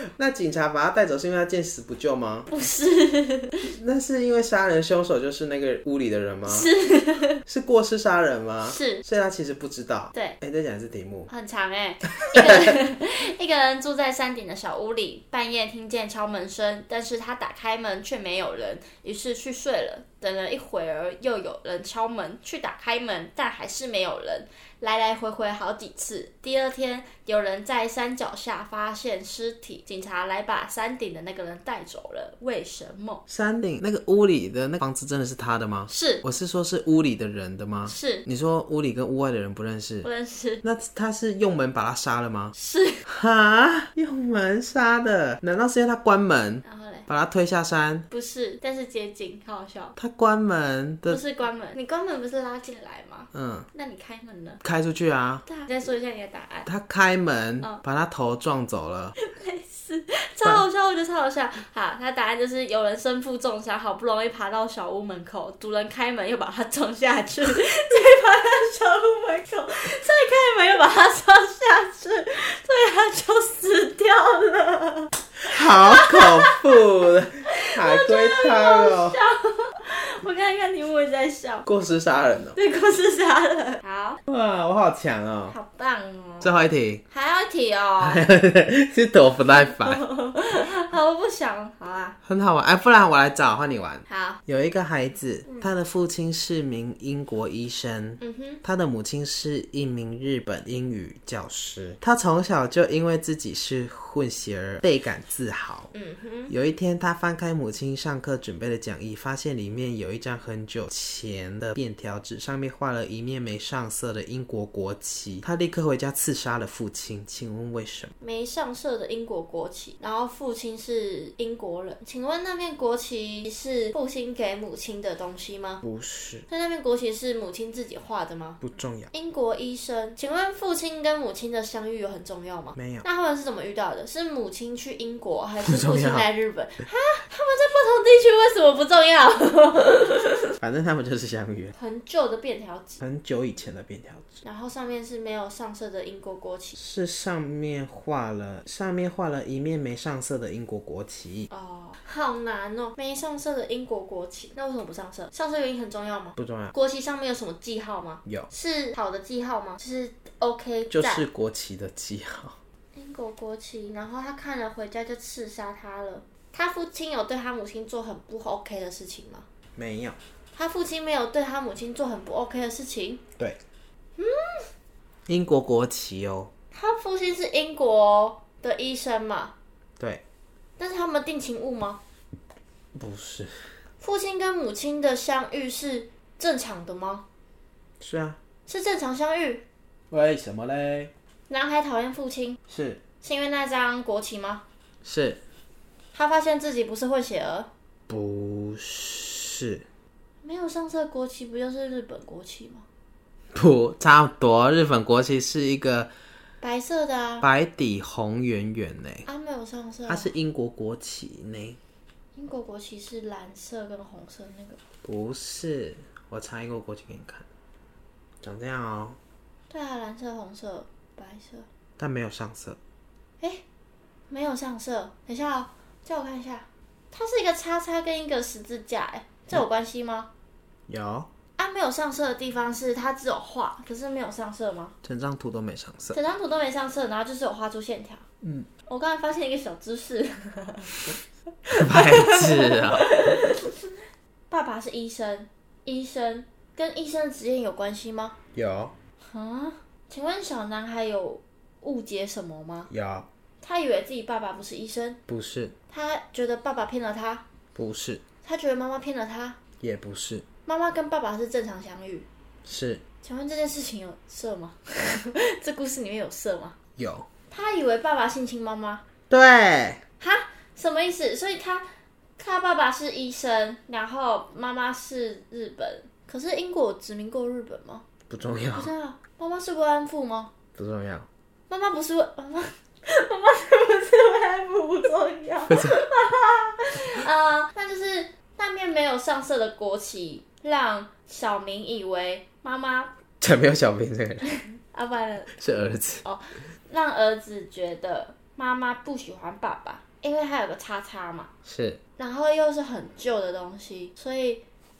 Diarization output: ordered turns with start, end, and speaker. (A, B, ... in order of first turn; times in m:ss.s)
0:00.2-0:02.5 A
0:02.5-0:03.7 B
0:03.7-0:06.7 A
0:06.4-0:07.4 B
0:07.4-0:11.3 A
0:08.6-0:09.0 B
0:10.1-0:10.4 B
0:11.3-0:33.2 B
0:33.3-0:40.1 A
0:35.9-0:36.2 B
0:37.8-0:38.2 B
0:40.0-0:40.6 B
0:40.6-0:42.5 A
0:42.5-0:43.0 B
0:43.0-0:48.0 A
0:46.6-0:47.1 B
0:48.1-0:49.9 B
0:50.0-0:51.2 A
0:51.1-0:54.6 B
0:53.3-0:53.7 A
0:54.6-0:55.4 A
0:55.4-0:56.7 B
0:56.6-0:59.2 A
0:59.2-1:16.6 B
1:15.4-1:19.2 A
1:17.6-1:21.6 B
1:21.6-1:22.6 A
1:22.6-1:24.2 B
1:24.3-1:25.6 A
1:25.5-1:26.6 B
1:26.4-1:27.0 A
1:27.1-1:28.2 B
1:28.0-1:30.0 A
1:29.5-1:32.2 B
1:32.2-1:45.9 A
1:34.1-1:34.4 B
1:38.2-1:38.6 B
1:45.9-1:46.5 B
1:46.5-1:58.1 A
1:58.2-2:05.8 B
2:05.8-2:06.4 A
2:06.5-2:08.6 B
2:08.6-2:09.1 A
2:09.1-2:20.5 B
2:12.8-2:13.0 A
2:15.6-2:16.3 A
2:20.6-2:21.7 A
2:21.8-2:23.0 B
2:23.0-2:24.2 A
2:24.4-2:26.8 B
2:26.8-2:31.5 A
2:31.5-2:41.2 B
2:36.4-2:36.7 A
2:40.9-2:42.6 A
2:42.9-2:49.4 B
2:49.8-2:50.2 A
2:50.5-2:53.2 B
2:54.2-2:54.7 B
2:55.3-2:56.5 A
2:56.7-2:59.5 B
3:00.8-3:02.0 B
3:02.9-3:03.7 A
3:04.0-3:07.2 B
3:08.0-3:08.4 A
3:08.7-3:09.6 B
3:10.1-3:11.1 A
3:11.5-3:12.6 B
3:12.7-3:13.0 A
3:13.2-3:14.6 B
3:15.0-3:15.4 A
3:16.1-3:17.7 B
3:18.1-3:19.8 A
3:20.4-3:22.8 B
3:23.5-3:26.1 A
3:26.6-3:27.4 B
3:27.4-3:29.2 A
3:29.2-3:30.3 B
3:30.1-3:31.8 A
3:32.3-3:34.8 B
3:35.0-3:37.4 A
3:38.4-3:39.2 A
3:39.7-3:41.7 B
3:42.0-3:42.8 A
3:44.3-3:50.3 B
3:50.9-3:51.3 A
3:51.6-3:54.9 B
3:55.0-3:56.2 A
3:56.1-3:58.2 B
3:58.4-3:58.7 A
3:58.8-4:00.9 B
4:01.7-4:03.9 B
4:01.7-4:03.1 A
4:04.5-4:08.4 B
4:08.5-4:08.9 A
4:09.2-4:12.9 B
4:12.9-4:13.2 A
4:13.6-4:15.2 B
4:15.3-4:15.7 A
4:15.9-4:17.4 B
4:17.7-4:18.2 A
4:18.4-4:19.6 B
4:19.8-4:20.4 A
4:20.6-4:22.2 B
4:22.6-4:23.0 A
4:23.2-4:26.8 B
4:27.0-4:27.2 A
4:27.5-4:29.0 B
4:29.3-4:30.0 A
4:30.2-4:31.8 B
4:32.4-4:38.0 B
4:38.3-4:38.9 A
4:38.7-4:40.5 B
4:40.8-4:41.3 A
4:41.7-4:53.1 B
4:45.7-4:46.0 A
4:53.4-4:54.5 A
4:54.8-4:55.6 B
4:55.6-4:56.2 A
4:56.2-5:01.5 B
5:01.6-5:02.0 A
5:02.2-5:04.6 B